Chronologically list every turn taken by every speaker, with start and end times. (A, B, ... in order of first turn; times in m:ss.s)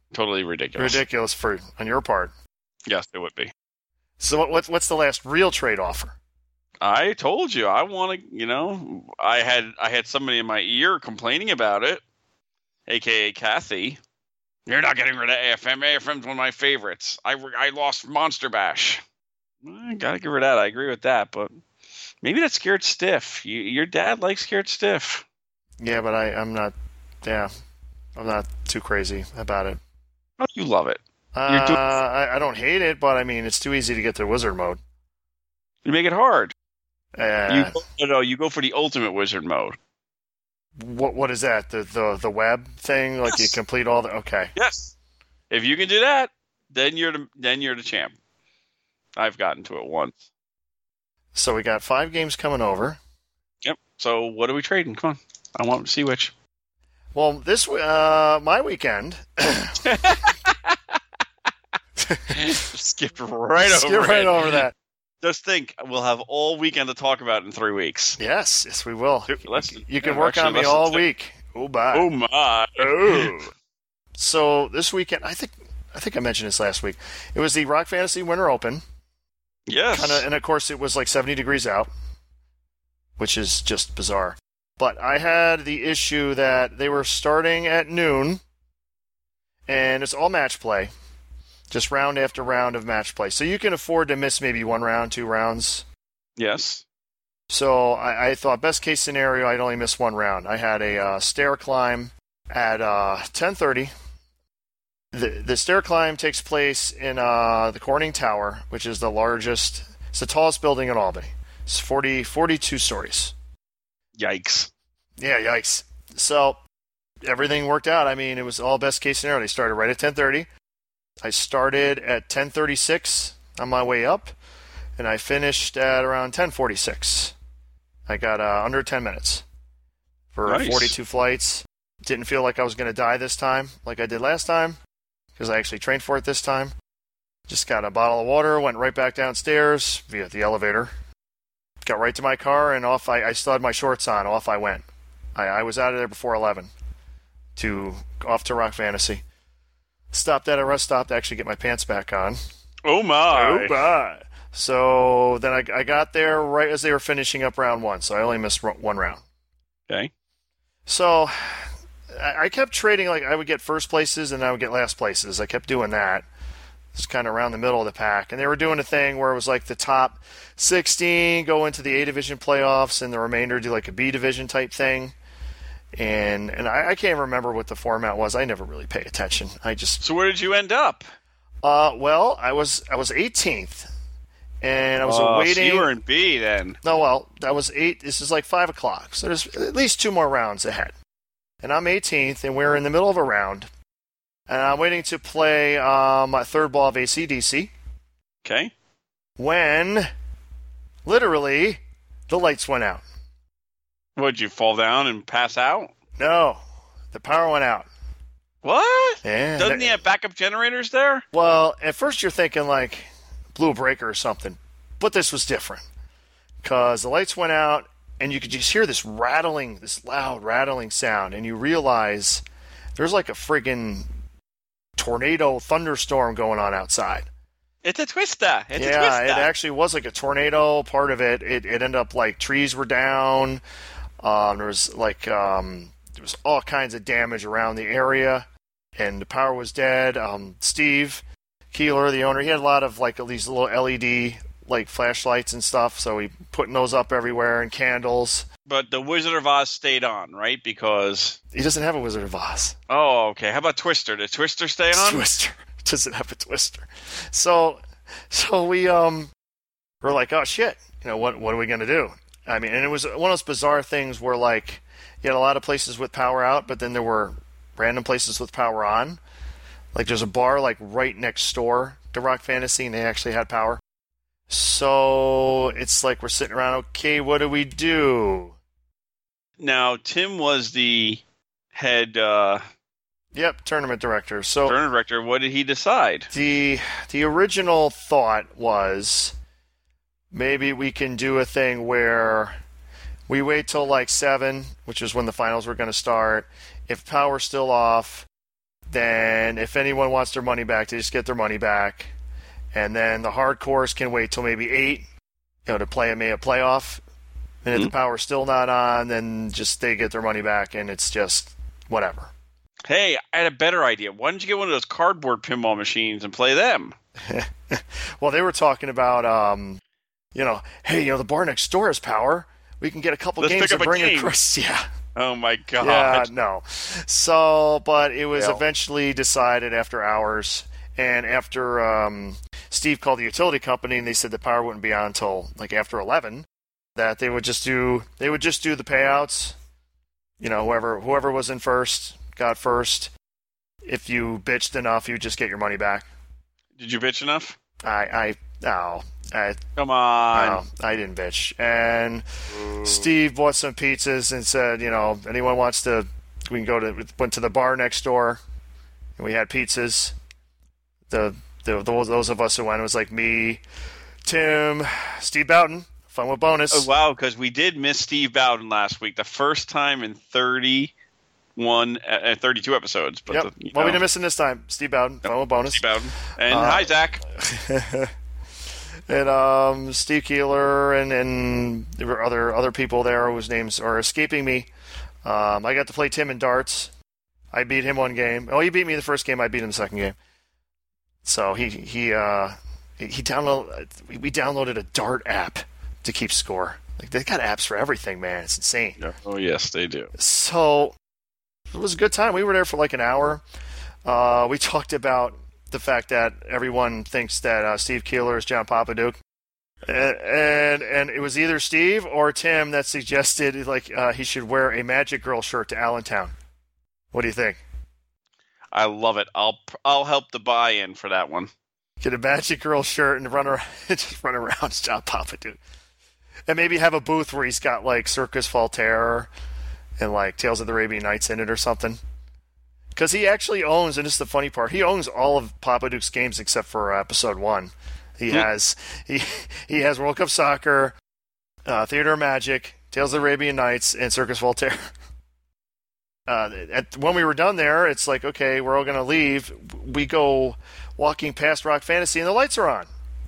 0:00.1-0:01.0 A
0:00.8-0:02.3 B
0:02.9-0:03.5 A
0:04.2-0:06.2 B
0:06.8-0:12.0 A
0:12.9-0:14.0 A
0:14.7-0:19.0 A
0:19.6-0:21.5 A
0:22.2-0:25.2 A
0:25.8-0:27.5 B
0:28.2-0:29.8 B
0:30.4-0:31.8 A
0:31.3-0:34.8 B
0:35.8-0:36.5 A
0:37.2-0:37.8 B
0:37.5-0:39.8 A
0:40.8-0:44.5 B
0:43.3-0:43.6 A
0:44.6-0:44.9 A
0:45.5-0:48.1 A
0:49.2-0:50.2 A
0:51.3-0:53.0 B
0:53.6-0:56.3 A
0:57.1-0:59.9 B
0:59.8-1:01.0 A
1:02.0-1:02.6 B
1:02.3-1:04.6 A
1:03.6-1:04.7 B
1:05.2-1:08.2 A
1:08.2-1:12.1 B
1:09.3-1:11.0 A
1:11.9-1:13.4 A
1:12.8-1:13.5 B
1:14.2-1:18.8 B
1:19.7-1:20.2 A
1:19.9-1:21.9 B
1:23.2-1:28.4 B
1:29.7-1:30.9 B
1:31.7-1:35.8 B
1:36.4-1:36.8 A
1:37.5-1:43.9 B
1:45.1-1:53.3 B
1:54.2-1:54.7 A
1:55.2-1:56.6 B
1:57.2-2:00.5 B
2:01.2-2:04.3 B
2:05.0-2:07.3 B
2:08.1-2:09.4 B
2:10.3-2:14.8 B
2:10.5-2:10.9 A
2:15.4-2:16.7 B
2:17.5-2:20.9 B
2:21.8-2:24.8 B
2:25.4-2:26.7 B
2:27.6-2:29.2 B
2:30.1-2:32.4 B
2:32.8-2:33.8 A
2:33.3-2:39.2 B
2:40.9-2:46.2 B
2:46.9-2:55.1 B
2:56.0-3:00.0 B
3:00.0-3:01.0 A
3:01.6-3:03.9 B
3:04.6-3:05.9 B
3:05.0-3:06.8 A
3:06.8-3:10.9 B
3:11.6-3:13.7 B
3:14.5-3:17.7 B
3:18.4-3:18.7 A
3:19.4-3:20.1 B
3:21.0-3:23.0 B
3:24.2-3:25.9 A
3:26.2-3:26.6 B
3:27.1-3:27.9 B
3:28.6-3:31.2 A
3:29.2-3:30.0 B
3:31.3-3:35.8 B
3:36.6-3:42.4 B
3:43.0-3:44.1 B
3:45.0-3:47.3 B
3:47.8-3:49.5 A
3:48.8-3:53.6 B
3:54.2-4:08.5 B
4:08.7-4:11.4 A
4:11.5-4:12.8 B
4:12.9-4:15.2 A
4:14.9-4:19.3 B
4:20.0-4:29.2 B
4:29.9-4:33.8 B
4:34.5-4:38.6 B
4:39.6-4:41.2 A
4:41.7-4:42.6 A
4:43.3-4:44.8 B
4:44.6-4:46.3 A
4:46.3-4:49.4 B
4:50.3-4:52.6 B
4:53.3-4:58.3 B
4:58.9-5:02.1 B
5:02.7-5:05.1 B
5:05.6-5:07.0 B
5:07.6-5:12.3 B
5:12.9-5:17.0 A
5:17.2-5:19.8 B
5:20.3-5:24.9 B
5:23.4-5:24.3 A
5:25.2-5:26.3 A
5:25.8-5:39.6 B
5:28.4-5:28.6 A
5:40.4-5:43.1 B
5:43.8-5:46.1 B
5:46.8-5:47.5 A
5:47.8-5:49.6 B
5:49.8-5:50.6 A
5:50.3-5:52.2 B
5:52.6-5:53.0 A
5:52.8-5:58.4 B
5:59.2-6:00.1 B
6:01.1-6:03.6 B
6:04.2-6:06.9 B
6:06.7-6:10.9 A
6:11.6-6:14.0 A
6:13.3-6:15.8 B
6:15.7-6:17.2 A
6:16.5-6:18.1 B
6:19.1-6:24.7 B
6:25.2-6:26.9 B
6:27.5-6:30.2 B
6:31.2-6:39.0 B
6:39.0-6:40.1 A
6:40.2-6:41.0 B
6:41.7-6:43.4 B
6:44.0-6:49.2 B
6:49.8-6:56.3 B
6:57.1-6:57.6 B
6:58.7-7:01.5 A
7:02.0-7:05.6 B
7:06.5-7:09.3 B
7:10.0-7:12.0 B
7:12.9-7:21.0 B
7:21.6-7:24.9 B
7:26.3-7:32.9 B